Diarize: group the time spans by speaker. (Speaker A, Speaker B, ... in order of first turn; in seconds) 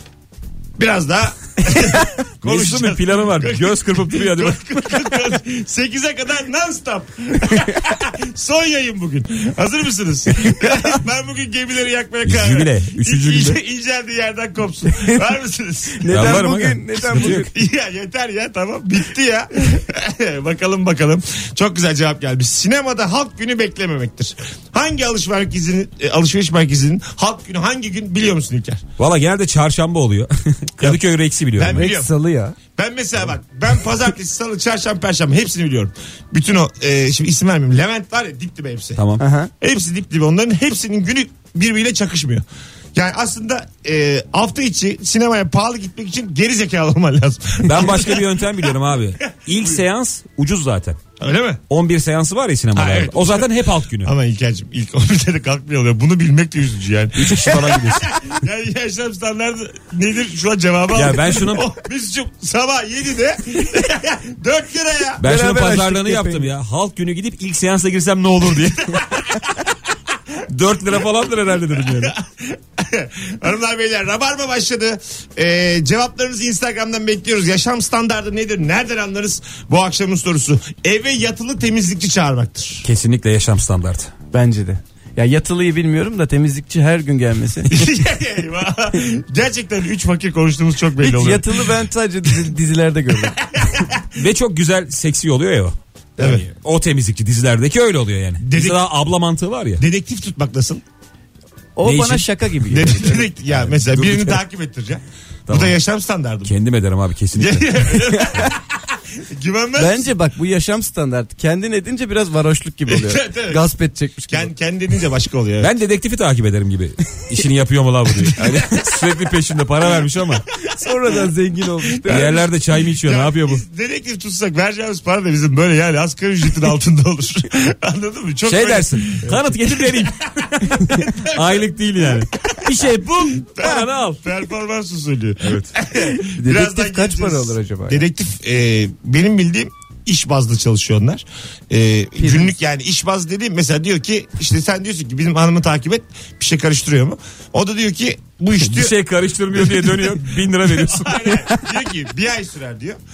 Speaker A: 0.8-16.4, 17.1-28.8, 31.6-32.1, 32.8-39.0, 39.6-48.7, 51.2-51.6, 52.8-65.2, 71.9-82.9, 87.7-91.7, 93.5-94.1, 96.2-96.5, 98.4-98.9, 99.8-100.8, 102.7-106.5, 107.4-110.1, 112.9-113.7, 114.3-115.7, 118.2-118.9, 122.1-122.5, 123.0-132.7, 133.4-148.9, 149.5-153.0
Speaker B: 2.4-4.6, 12.2-13.6, 16.1-17.4, 29.0-31.9, 39.0-39.2, 47.6-51.0, 51.7-54.1, 57.2-58.1, 61.0-61.7, 65.2-69.2, 70.5-72.1, 82.8-84.1, 94.1-99.8, 101.8-102.3, 103.5-104.4, 105.5-105.8, 106.5-108.0, 115.6-120.5, 122.1-123.6, 128.5-134.2, 135.4-135.7, 148.6-151.4
Speaker C: 16.0-17.5, 31.7-32.6, 39.2-39.5, 65.2-66.5, 84.3-87.9, 91.0-93.4, 101.8-103.3, 109.8-114.5, 120.7-122.4, 136.2-138.1, 142.2-142.5